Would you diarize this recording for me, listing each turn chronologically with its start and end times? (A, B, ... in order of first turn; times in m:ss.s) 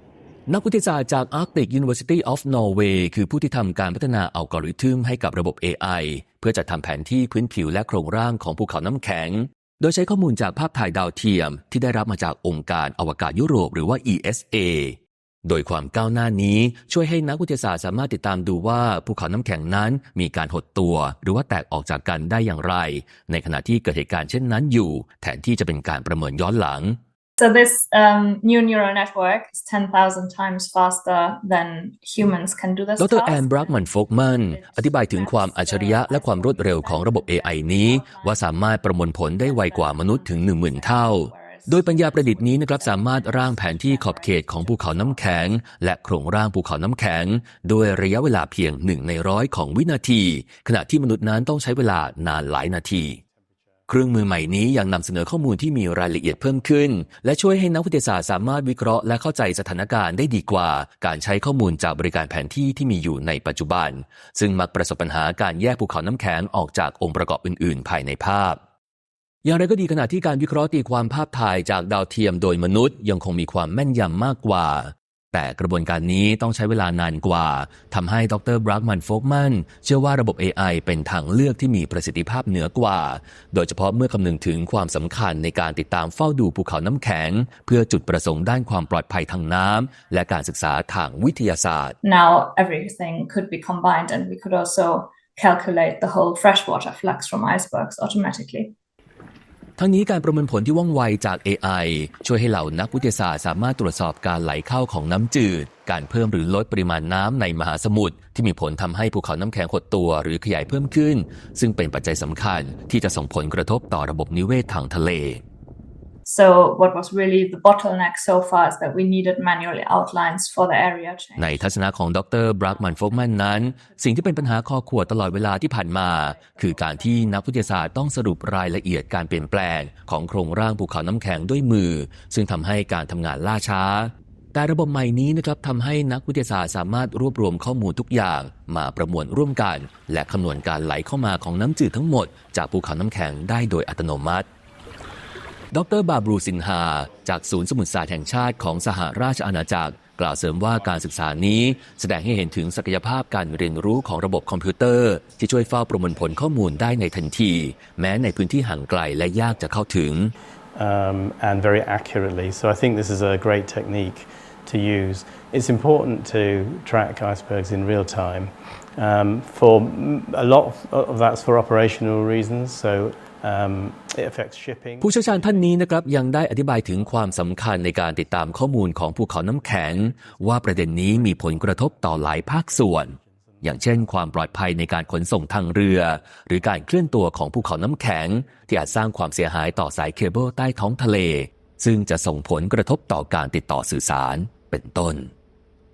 0:00.5-0:27.0 A
0:27.4-0:45.6 B
0:33.0-0:53.2 A
0:53.9-1:08.6 A
1:09.4-1:32.0 A
1:32.0-1:38.7 B
1:39.8-1:55.4 A
1:56.3-2:01.9 B
2:01.4-2:24.5 A
2:02.6-2:07.9 B
2:25.7-2:40.3 A
2:30.7-2:32.0 C
2:33.7-2:34.1 C
2:36.3-2:37.4 C
2:40.7-2:55.9 C
2:55.0-3:15.3 A
2:56.9-2:57.6 C
2:59.8-3:04.0 C